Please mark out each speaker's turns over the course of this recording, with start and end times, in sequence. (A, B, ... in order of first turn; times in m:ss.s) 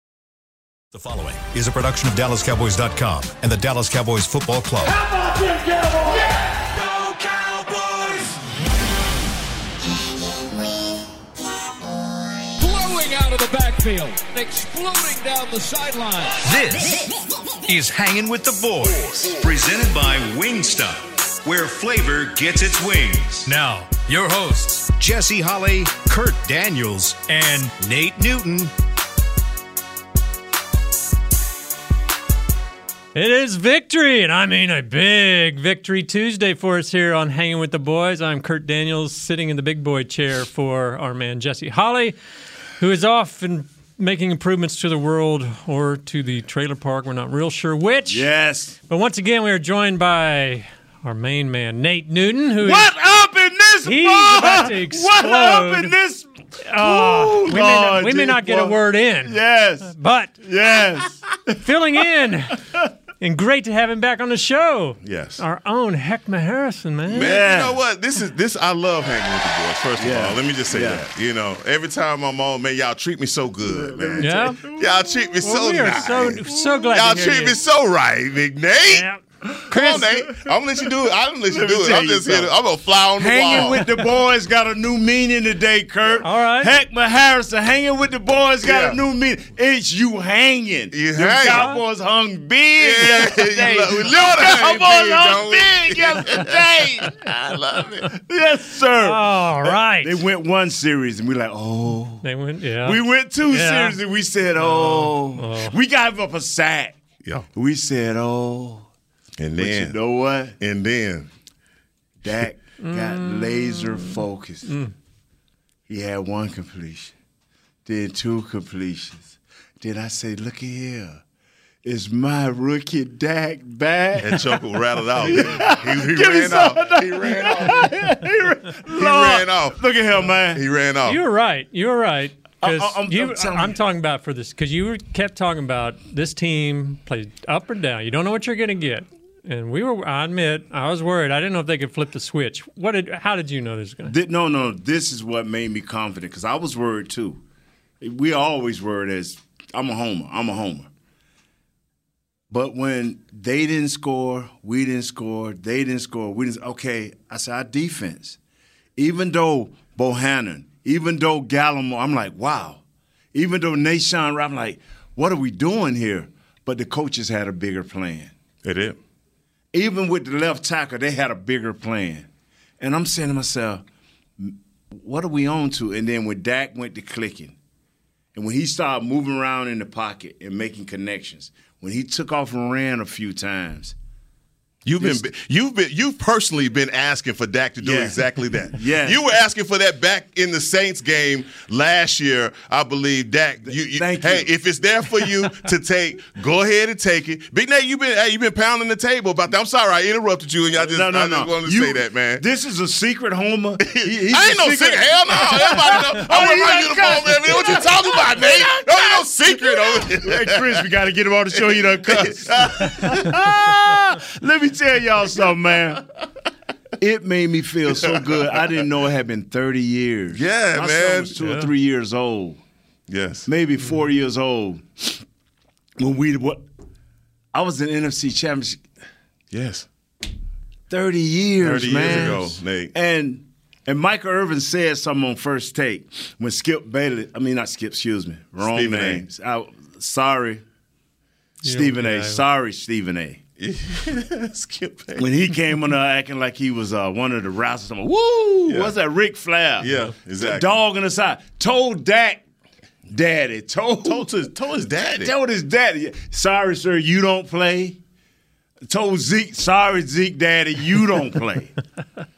0:00.9-0:05.0 A
0:07.3-0:08.2 A
0:12.6-0:16.4 B
0:16.4-0:16.9 A
0:17.6-0:28.7 A
0:33.2-0:42.2 C
0:42.8-0:48.3 C
0:48.1-0:48.8 D
0:48.9-0:52.9 C
0:52.6-1:01.6 D
0:53.8-0:55.9 C
0:56.7-1:00.4 C
1:01.6-1:02.6 C
1:03.2-1:07.3 C
1:05.0-1:05.4 E
1:07.1-1:19.1 E
1:07.1-1:07.8 D
1:10.0-1:11.1 D
1:13.7-1:14.9 D
1:14.2-1:14.6 C
1:15.4-1:17.6 C
1:15.8-1:16.4 D
1:18.9-1:20.1 C
1:19.5-1:20.9 D
1:19.7-1:24.0 E
1:21.5-1:22.5 D
1:23.2-1:42.2 D
1:26.2-1:26.7 C
1:28.6-1:29.0 E
1:30.9-1:31.7 E
1:31.4-1:31.8 C
1:32.8-1:38.1 E
1:39.0-1:40.2 C
1:42.2-1:44.0 C
1:42.8-1:47.0 D
1:44.6-1:45.8 C
1:47.5-1:48.9 D
1:49.4-1:50.0 E
1:49.6-1:50.6 D
1:50.6-1:51.3 E
1:52.2-1:54.8 D
1:52.8-1:54.9 C
1:55.9-1:57.1 D
1:57.9-2:01.2 D
2:01.8-2:04.6 D
2:04.2-2:07.9 E
2:05.2-2:10.6 D
2:08.9-2:09.8 E
2:10.5-2:11.2 E
2:11.1-2:24.2 C
2:12.6-2:13.8 D
2:24.0-2:27.4 D
2:28.0-2:30.9 D
2:32.5-2:38.4 D
2:39.0-2:42.8 D
2:43.3-2:48.3 D
2:48.6-2:49.0 E
2:49.7-2:52.3 D
2:52.8-2:53.8 D
2:54.4-2:57.6 D
2:58.4-3:04.0 D
3:04.8-3:22.4 E
3:07.8-3:08.2 D
3:08.7-3:09.2 D
3:13.6-3:14.5 D
3:20.8-3:36.0 D
3:23.8-3:30.9 E
3:31.6-3:33.4 E
3:37.0-3:42.6 D
3:38.0-3:38.6 E
3:40.3-3:41.3 E
3:41.4-3:41.7 C
3:43.1-3:43.5 E
3:43.5-3:45.2 D
3:46.0-3:46.6 D
3:47.5-3:48.8 D
3:49.5-3:49.9 E
3:50.9-4:00.6 D
3:51.6-3:52.9 E
3:58.6-3:59.2 E
4:01.6-4:02.4 C
4:01.6-4:03.4 D
4:03.6-4:05.3 E
4:05.2-4:12.4 D
4:08.7-4:08.9 E
4:09.8-4:10.8 E
4:13.1-4:14.3 D
4:14.0-4:15.3 E
4:15.0-4:18.0 D
4:18.9-4:21.7 D